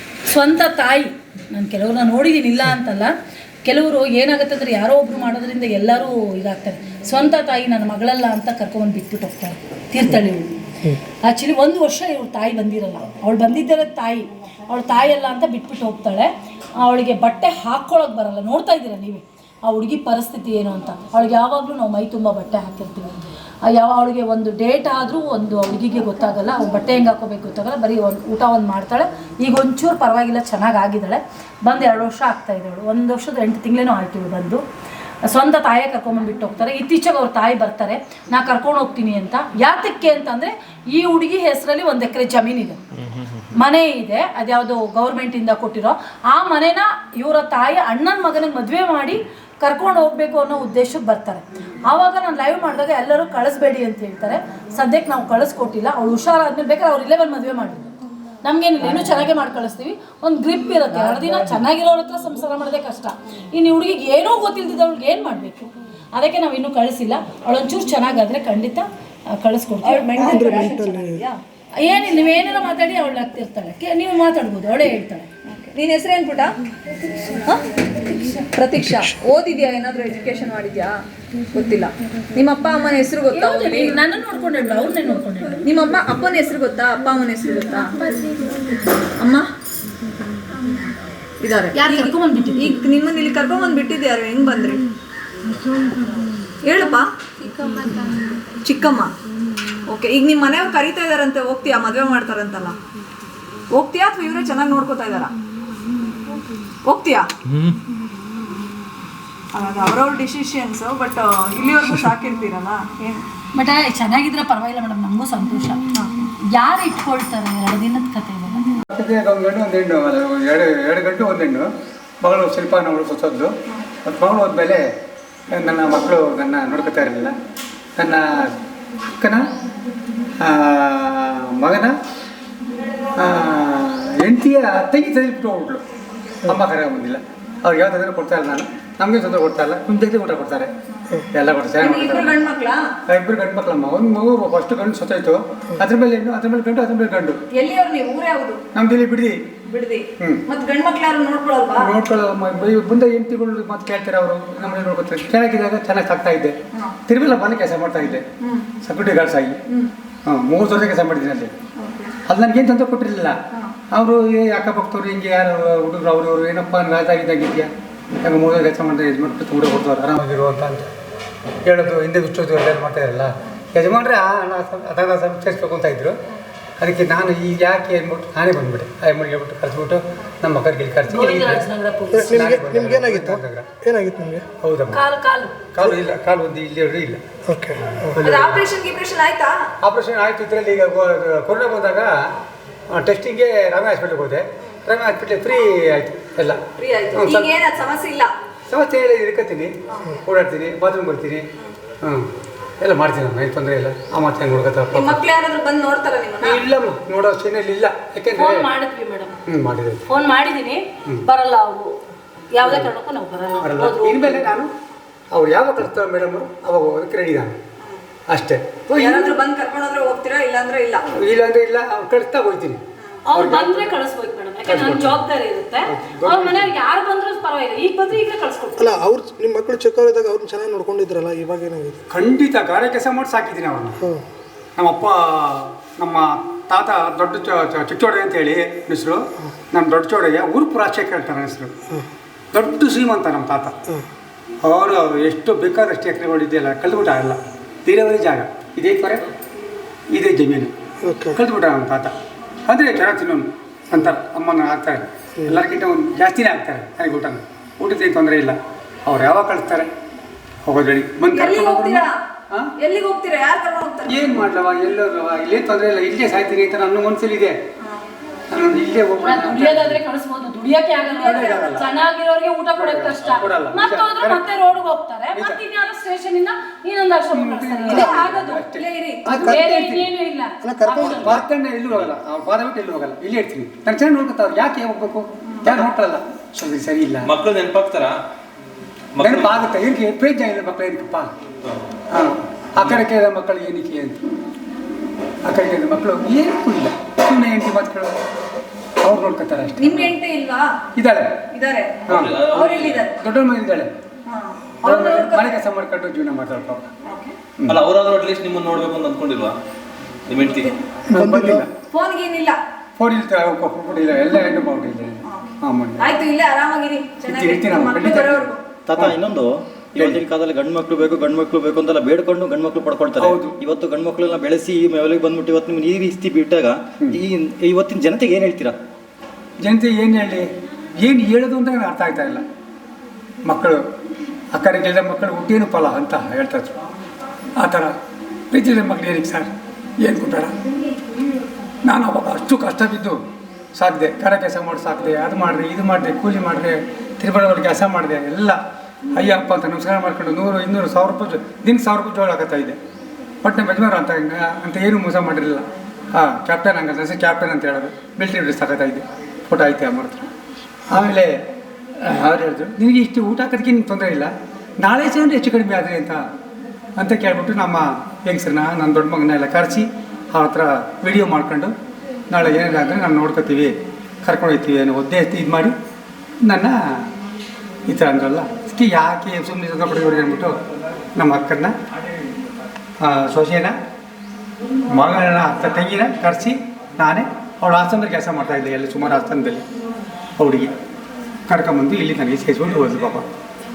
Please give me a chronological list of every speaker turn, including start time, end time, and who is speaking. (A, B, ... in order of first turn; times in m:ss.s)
0:00.3-0:03.1 A
0:03.6-0:34.6 A
0:35.2-0:42.8 A
0:43.5-0:57.9 A
0:58.4-1:10.8 A
1:01.0-1:01.6 B
1:09.8-1:11.4 C
1:10.2-1:11.2 D
1:11.8-1:15.3 A
1:15.5-1:16.5 C
1:17.4-1:21.0 C
1:21.5-1:24.0 C
1:23.3-1:25.6 A
1:25.6-1:27.9 C
1:29.2-1:29.5 C
1:31.4-1:34.8 C
1:31.8-1:32.8 A
1:36.7-1:37.0 C
1:38.6-1:39.1 C
1:39.9-1:42.8 C
1:43.8-1:45.3 C
1:46.9-1:47.3 C
1:49.6-1:53.2 C
1:53.5-1:58.8 A
1:58.9-2:01.7 B
2:02.2-2:03.5 B
2:04.0-2:04.9 B
2:05.5-2:07.4 B
2:08.0-2:08.5 B
2:10.4-2:12.0 B
2:13.2-2:15.8 B
2:16.4-2:20.7 B
2:21.3-2:22.4 B
2:21.8-2:22.8 C
2:23.1-2:27.4 B
2:27.6-2:28.6 C
2:28.7-2:29.5 B
2:29.7-2:31.9 C
2:30.2-2:30.4 B
2:31.8-2:36.6 B
2:37.1-2:38.3 B
2:38.4-2:38.7 C
2:38.8-2:39.6 B
2:40.2-2:41.5 B
2:41.8-2:42.2 C
2:42.3-2:43.4 B
2:43.9-2:47.7 B
2:48.2-2:50.9 B
2:51.7-2:56.2 B
2:56.8-3:01.6 B
3:01.1-3:02.5 A
3:02.2-3:04.5 D
3:02.2-3:03.7 B
3:04.6-3:05.0 B
3:04.9-3:05.6 A
3:05.7-3:07.2 B
3:07.5-3:08.1 D
3:08.0-3:08.6 B
3:08.2-3:09.5 C
3:09.8-3:12.1 B
3:12.9-3:16.6 B
3:16.8-3:18.3 C
3:17.2-3:17.5 B
3:18.7-3:21.5 B
3:19.9-3:20.2 C
3:22.8-3:25.2 B
3:24.9-3:26.6 C
3:26.4-3:28.7 B
3:28.4-3:29.3 A
3:29.5-3:30.0 B
3:30.1-3:32.0 A
3:32.5-3:34.5 A
3:32.6-3:32.9 B
3:33.6-3:34.7 B
3:35.3-3:37.5 B
3:38.3-3:39.4 B
3:38.9-3:41.0 C
3:41.1-3:42.8 B
3:43.3-3:49.0 A
3:43.3-3:44.0 B
3:44.7-3:45.2 B
3:45.9-3:46.7 B
3:48.8-3:52.0 D
3:52.1-3:54.0 B
3:54.8-4:01.7 B
4:02.5-4:03.7 B
4:04.6-4:09.2 B
4:10.1-4:10.7 B
4:11.0-4:11.4 D
4:11.3-4:12.1 B
4:12.7-4:19.9 B
4:20.6-4:22.7 B
4:21.3-4:22.2 C
4:22.8-4:24.5 C
4:24.1-4:27.6 B
4:28.5-4:30.0 B
4:29.2-4:38.6 A
4:31.2-4:31.8 C
4:31.2-4:31.9 B
4:32.8-4:34.5 B
4:35.4-4:35.6 B
4:37.3-4:40.1 B
4:37.9-4:39.3 C
4:39.3-4:41.3 A
4:40.6-4:41.3 D
4:41.0-4:47.3 B
4:47.2-4:48.2 E
4:49.1-4:49.6 E
4:49.2-4:51.3 B
4:52.1-4:54.2 B
4:52.8-4:53.0 E
4:55.4-4:58.1 B
4:59.0-5:00.2 B
4:59.8-5:00.7 C
5:01.0-5:01.4 B
5:01.5-5:03.1 C
5:02.1-5:02.6 B
5:02.1-5:03.1 E
5:03.2-5:03.9 B
5:04.3-5:05.6 C
5:04.8-5:06.9 B
5:07.1-5:07.4 C
5:07.7-5:09.6 E
5:10.3-5:10.7 E
5:11.1-5:11.7 B
5:11.1-5:11.6 D
5:11.9-5:12.6 C
5:13.0-5:16.1 B
5:15.3-5:18.6 C
5:17.2-5:19.2 B
5:18.9-5:28.8 F
5:20.0-5:20.2 B
5:23.2-5:23.6 B
5:29.6-5:30.5 B
5:31.0-5:32.4 B
5:33.4-5:33.8 B
5:34.5-5:36.8 B
5:37.6-5:37.9 B
5:38.5-5:40.5 B
5:41.8-5:43.2 B
5:43.8-5:48.6 B
5:49.2-5:52.8 B
5:53.4-6:00.3 B
6:00.9-6:01.4 B
6:02.0-6:06.2 B
6:07.0-6:11.7 B
6:12.3-6:15.8 B
6:16.4-6:17.0 B
6:17.9-6:20.6 B
6:21.2-6:21.7 B
6:23.0-6:23.8 B
6:24.9-6:29.6 B
6:30.4-6:30.7 B
6:31.5-6:33.3 B